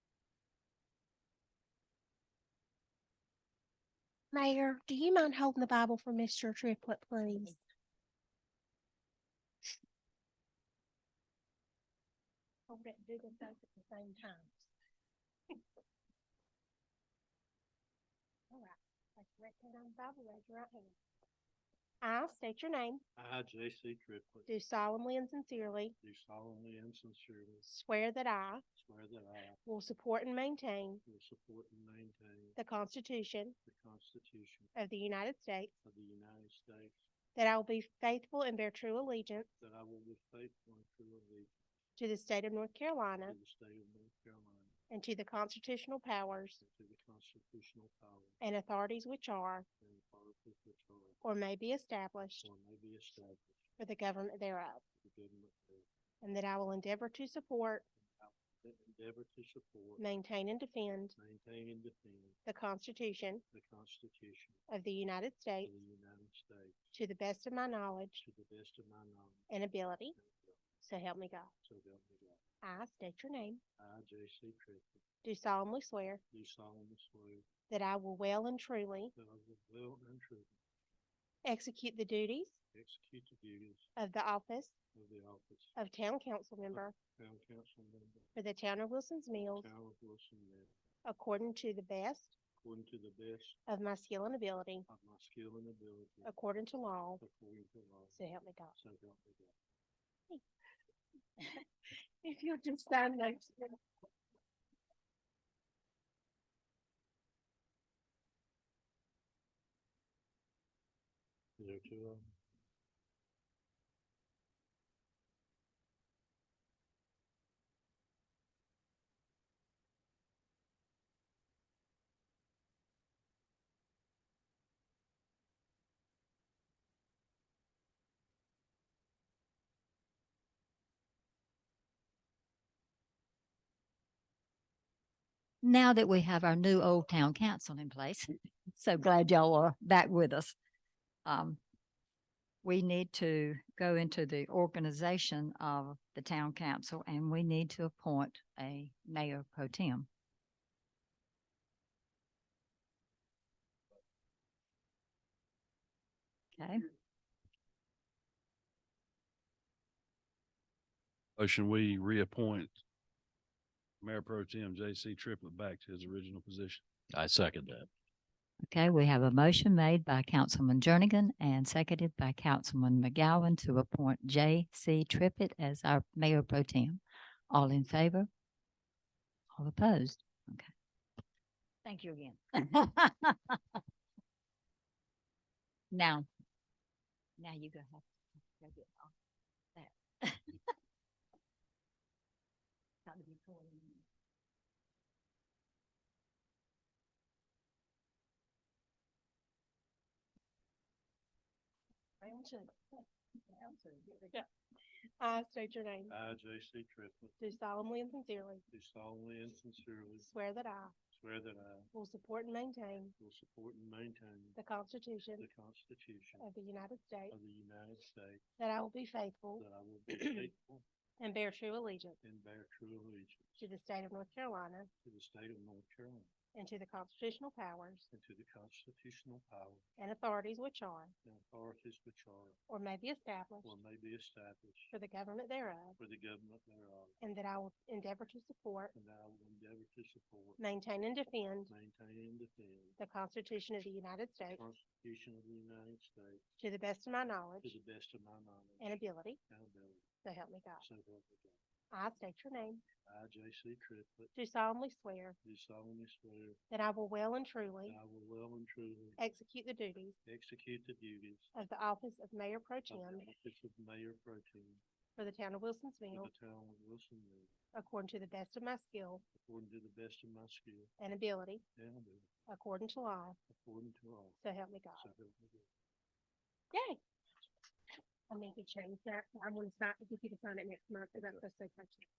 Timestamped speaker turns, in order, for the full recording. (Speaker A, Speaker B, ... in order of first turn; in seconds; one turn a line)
Speaker A: 4.3-7.6
Speaker A: 12.7-14.7
Speaker A: 18.5-21.0
Speaker A: 22.0-23.0
Speaker B: 23.2-24.5
Speaker A: 24.5-26.0
Speaker B: 26.0-27.7
Speaker A: 27.6-28.6
Speaker B: 28.7-29.6
Speaker A: 29.6-31.0
Speaker B: 31.1-32.6
Speaker A: 32.6-33.6
Speaker B: 33.6-34.7
Speaker A: 34.7-35.7
Speaker B: 35.8-37.0
Speaker A: 37.4-39.5
Speaker B: 39.6-41.5
Speaker A: 42.0-43.4
Speaker B: 43.2-44.8
Speaker A: 44.9-46.6
Speaker B: 46.6-48.4
Speaker A: 48.4-49.7
Speaker B: 49.8-51.2
Speaker A: 51.2-52.5
Speaker B: 52.4-53.6
Speaker A: 53.8-54.8
Speaker B: 55.0-55.9
Speaker A: 56.2-57.9
Speaker B: 58.0-60.0
Speaker A: 60.0-61.2
Speaker B: 61.1-62.4
Speaker A: 62.5-63.4
Speaker B: 63.5-64.6
Speaker A: 64.7-65.7
Speaker B: 65.6-66.8
Speaker A: 66.9-68.2
Speaker B: 68.2-69.5
Speaker A: 69.5-70.2
Speaker B: 70.1-70.6
Speaker A: 70.8-71.5
Speaker B: 71.6-72.4
Speaker A: 72.6-73.6
Speaker B: 73.8-75.0
Speaker A: 75.2-76.2
Speaker B: 76.3-77.5
Speaker A: 77.7-79.1
Speaker B: 79.1-80.6
Speaker A: 81.5-82.6
Speaker B: 82.7-83.9
Speaker A: 84.0-84.7
Speaker B: 84.9-85.8
Speaker A: 85.8-87.0
Speaker B: 86.7-88.3
Speaker A: 88.3-89.7
Speaker B: 89.3-90.7
Speaker A: 91.1-92.3
Speaker B: 92.6-93.6
Speaker A: 93.7-94.9
Speaker B: 94.9-96.3
Speaker A: 96.2-97.2
Speaker B: 97.2-98.2
Speaker A: 98.1-98.8
Speaker B: 98.8-99.5
Speaker A: 102.2-103.8
Speaker B: 111.6-112.3
Speaker C: 135.6-140.6
Speaker C: 141.2-141.6
Speaker C: 142.6-150.1
Speaker C: 156.6-156.8
Speaker D: 161.4-162.8
Speaker D: 164.0-167.9
Speaker C: 168.6-178.3
Speaker C: 179.6-180.7
Speaker C: 181.8-183.8
Speaker C: 185.9-186.3
Speaker C: 187.4-188.1
Speaker C: 188.6-189.1
Speaker C: 189.8-190.6
Speaker C: 193.1-194.0
Speaker A: 202.2-204.5
Speaker A: 205.2-206.2
Speaker B: 206.1-207.4
Speaker A: 207.4-208.6
Speaker B: 208.7-210.3
Speaker A: 210.2-210.9
Speaker B: 211.1-211.9
Speaker A: 211.9-213.1
Speaker B: 213.2-214.6
Speaker A: 214.6-215.5
Speaker B: 215.4-216.5
Speaker A: 216.4-217.4
Speaker B: 217.3-218.4
Speaker A: 218.6-220.5
Speaker B: 219.6-220.8
Speaker A: 221.2-222.2
Speaker B: 222.2-223.7
Speaker A: 223.6-224.9
Speaker B: 225.0-226.3
Speaker A: 226.5-228.1
Speaker B: 228.1-229.9
Speaker A: 230.0-231.1
Speaker B: 231.2-232.6
Speaker A: 232.7-233.8
Speaker B: 233.6-234.9
Speaker A: 234.9-236.0
Speaker B: 236.0-237.2
Speaker A: 237.2-238.9
Speaker B: 238.9-240.6
Speaker A: 240.6-241.7
Speaker B: 241.7-243.0
Speaker A: 243.0-244.6
Speaker B: 244.4-246.4
Speaker A: 246.6-247.8
Speaker B: 247.6-248.9
Speaker A: 248.8-249.4
Speaker B: 249.5-250.1
Speaker A: 250.2-250.9
Speaker B: 250.8-251.6
Speaker A: 251.9-252.8
Speaker B: 253.1-254.3
Speaker A: 254.3-255.4
Speaker B: 255.4-256.6
Speaker A: 256.7-258.0
Speaker B: 257.9-259.2
Speaker A: 259.2-260.2
Speaker B: 260.2-261.5
Speaker A: 261.5-263.3
Speaker B: 262.9-264.8
Speaker A: 265.2-266.3
Speaker B: 266.1-267.5
Speaker A: 267.7-269.2
Speaker B: 269.3-270.9
Speaker A: 271.0-271.6
Speaker B: 271.8-272.3
Speaker A: 272.5-273.4
Speaker B: 273.5-274.4
Speaker A: 274.4-275.1
Speaker B: 275.0-275.7
Speaker A: 276.7-277.0
Speaker A: 278.3-282.1